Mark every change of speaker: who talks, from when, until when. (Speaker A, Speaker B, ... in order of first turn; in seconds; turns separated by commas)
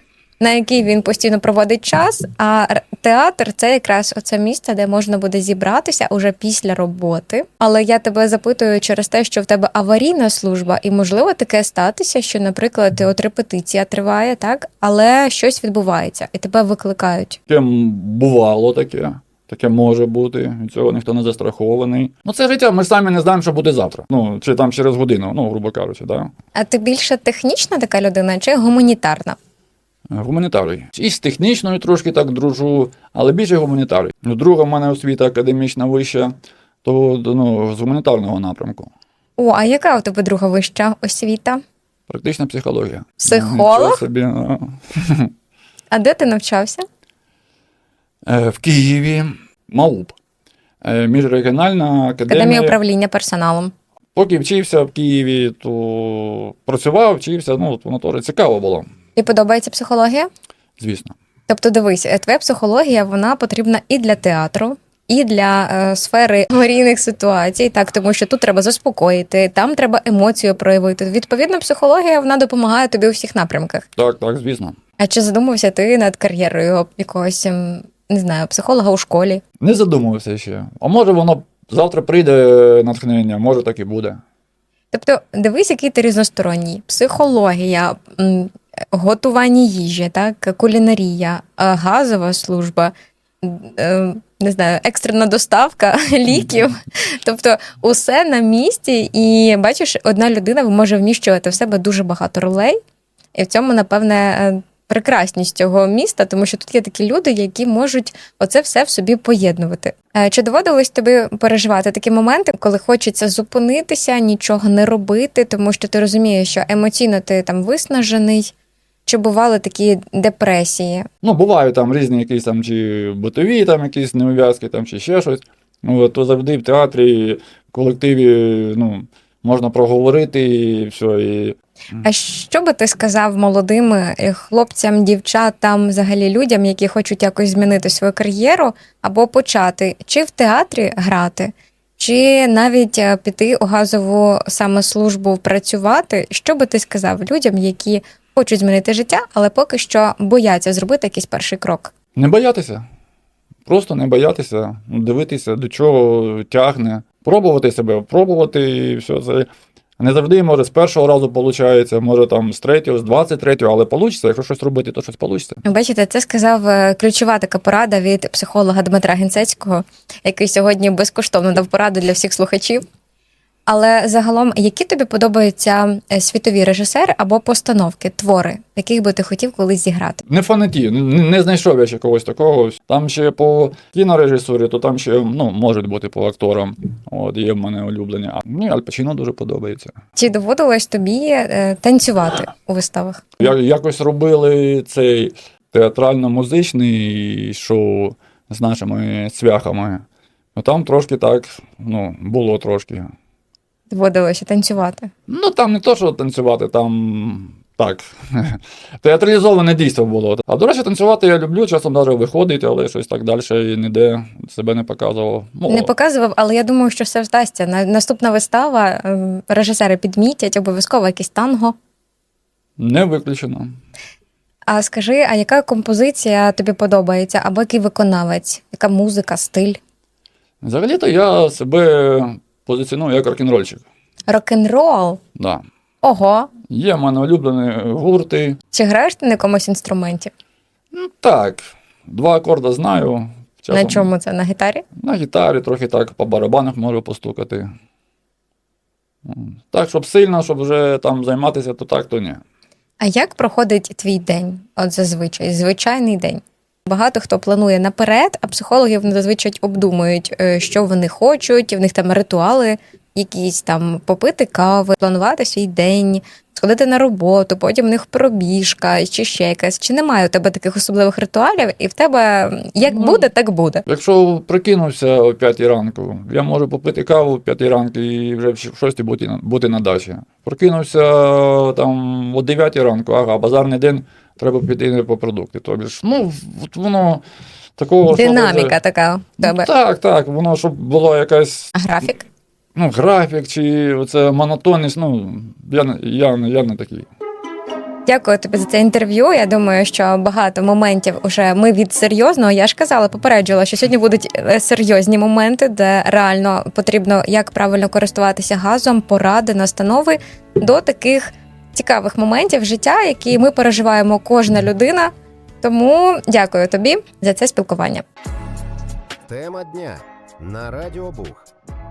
Speaker A: 0.4-17.4, Speaker B: 17.5-26.3, Speaker A: 26.6-29.4, Speaker B: 30.1-36.3, Speaker B: 36.8-38.9, Speaker A: 39.4-41.6, Speaker B: 42.1-45.3, Speaker A: 43.2-44.0, Speaker A: 45.9-46.9, Speaker B: 48.3-50.1, Speaker B: 50.8-52.8, Speaker A: 52.3-53.7, Speaker B: 54.1-58.9, Speaker A: 59.2-60.3, Speaker B: 60.8-61.1, Speaker A: 61.5-73.9, Speaker B: 74.0-74.8, Speaker A: 75.0-79.4, Speaker B: 79.6-84.2, Speaker A: 84.9-102.8, Speaker A: 103.3-118.5, Speaker A: 119.1-121.1, Speaker B: 121.2-132.0, Speaker A: 132.0-151.9, Speaker B: 152.2-152.8, Speaker B: 153.7-159.5, Speaker B: 160.0-165.6, Speaker A: 165.6-172.8, Speaker A: 173.7-180.2, Speaker B: 180.3-190.0, Speaker A: 190.2-193.4, Speaker B: 193.4-200.0, Speaker B: 200.6-203.1, Speaker A: 203.9-205.1, Speaker B: 205.3-215.9, Speaker A: 215.7-221.8, Speaker B: 222.8-223.7, Speaker A: 224.7-229.8, Speaker B: 230.6-233.8, Speaker A: 234.3-235.2, Speaker B: 235.4-235.6, Speaker A: 236.0-236.5, Speaker B: 236.7-238.6, Speaker A: 238.7-240.3, Speaker B: 240.9-244.1, Speaker A: 243.7-244.8, Speaker B: 245.0-247.7, Speaker B: 249.2-252.4, Speaker A: 253.0-273.8, Speaker B: 273.9-287.2, Speaker B: 287.8-288.8, Speaker A: 288.1-289.7, Speaker B: 289.4-291.7, Speaker A: 291.7-292.3, Speaker B: 292.8-297.1, Speaker A: 298.1-318.1, Speaker C: 319.3-321.5